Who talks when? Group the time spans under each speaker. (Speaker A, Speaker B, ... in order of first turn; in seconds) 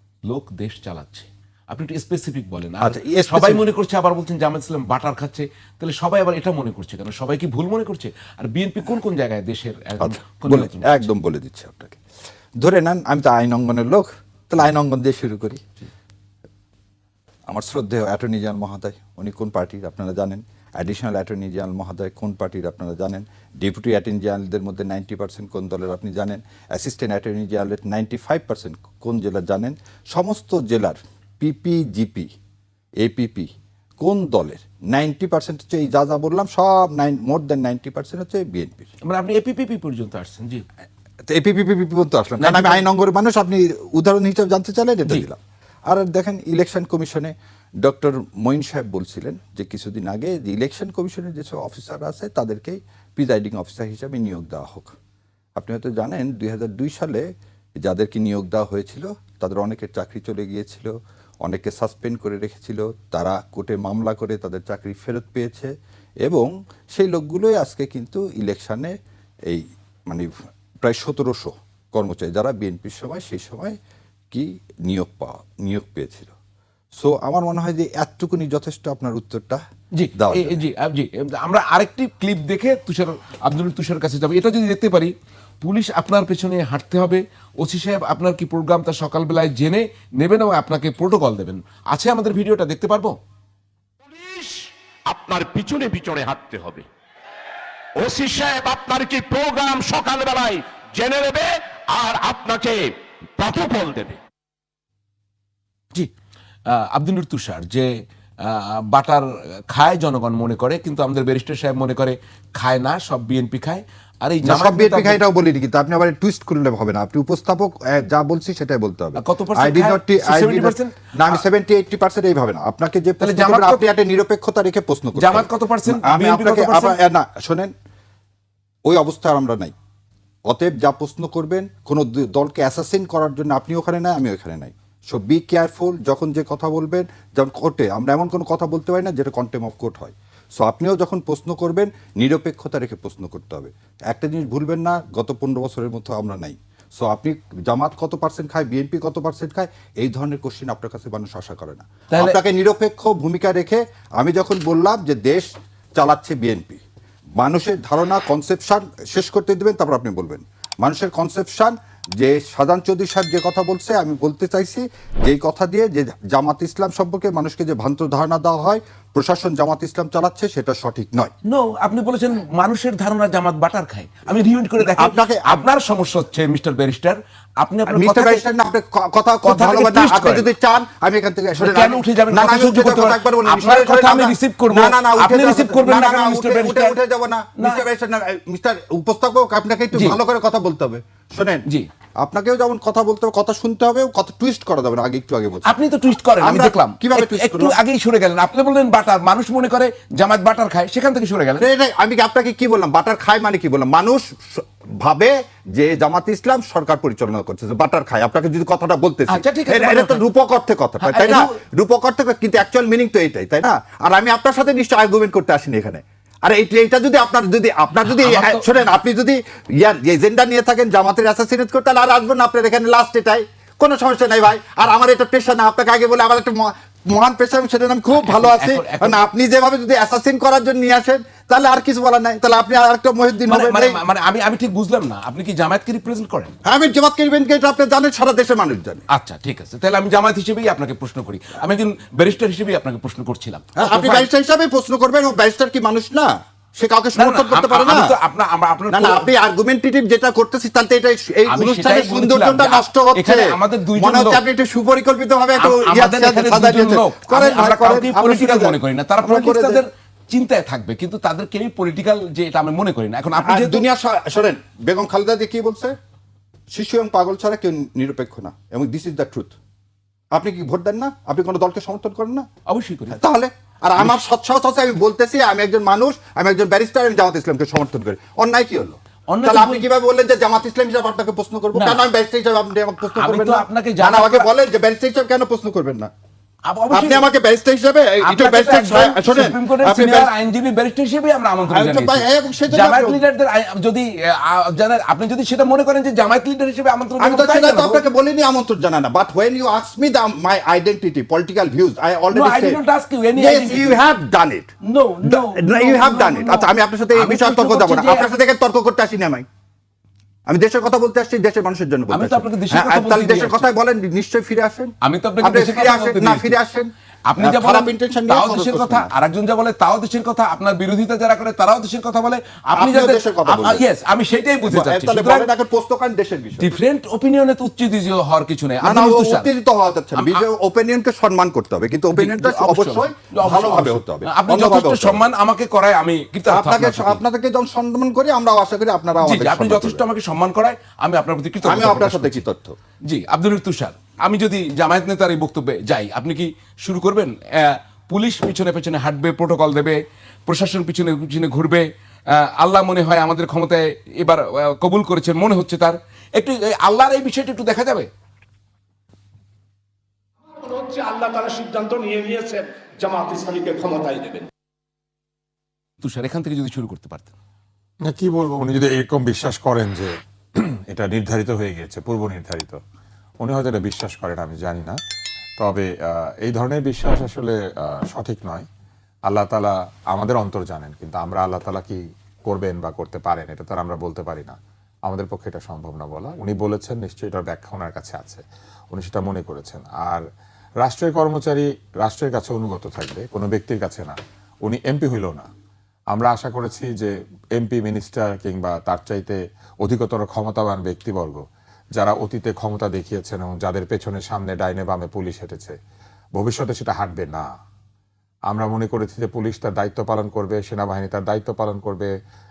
Speaker A: 0.3-11.1, 39.1-40.6, 42.4-42.8, 80.0-93.2, 106.7-115.2, 119.2-121.4, 123.2-123.9, 125.2-127.0, 152.1-152.4, 171.5-178.4, 179.5-180.5, 181.6-186.9, 187.6-187.9, 195.7-201.7, 209.3-210.2, 211.0-211.5, 218.1-218.7, 228.1-229.3, 233.5-236.5, 239.1-244.3, 247.2-249.3, 251.5-254.4, 255.6-263.8, 272.7-273.2, 279.3-279.8, 281.7-282.1, 283.0-284.5, 286.7-287.3, 288.2-298.0, 302.3-304.0, 304.9-308.3, 312.1-313.7, 315.0-316.5, 317.3-325.5, 326.6-329.5, 330.1-330.5, 332.1-337.2, 339.2-342.4, 343.1-358.1, 360.6-364.5, 366.0-367.4
Speaker B: 2.8-3.6, 10.0-12.0, 12.6-15.6, 17.5-32.3, 33.0-38.9, 41.3-54.9, 55.6-57.2, 57.8-60.9, 61.4-65.7, 66.2-68.9, 69.5-70.3, 70.8-73.8, 74.3-76.3, 77.0-79.6, 80.2-80.6, 114.4-127.7, 128.9-129.7, 130.5-156.8, 157.4-171.3, 174.8-175.6, 177.9-191.7, 192.2-195.8, 196.4-197.8, 201.6-234.0, 236.7-239.0, 243.8-248.1, 248.9-259.8, 263.4-265.9, 266.7-269.6, 270.3-272.5, 273.1-286.1, 286.9-290.3, 291.7-293.2, 297.2-302.8, 303.4-304.7, 305.2-309.5, 310.5-319.1, 322.7-323.8, 324.7-326.7, 328.8-335.3, 336.5-340.1, 341.6-342.8
Speaker C: 94.0-96.9, 98.0-104.2
Speaker D: 368.1-372.8, 373.4-375.0, 375.6-378.7, 379.3-390.2, 390.8-395.5, 396.1-401.4, 402.0-405.8, 406.4-407.5, 408.5-412.1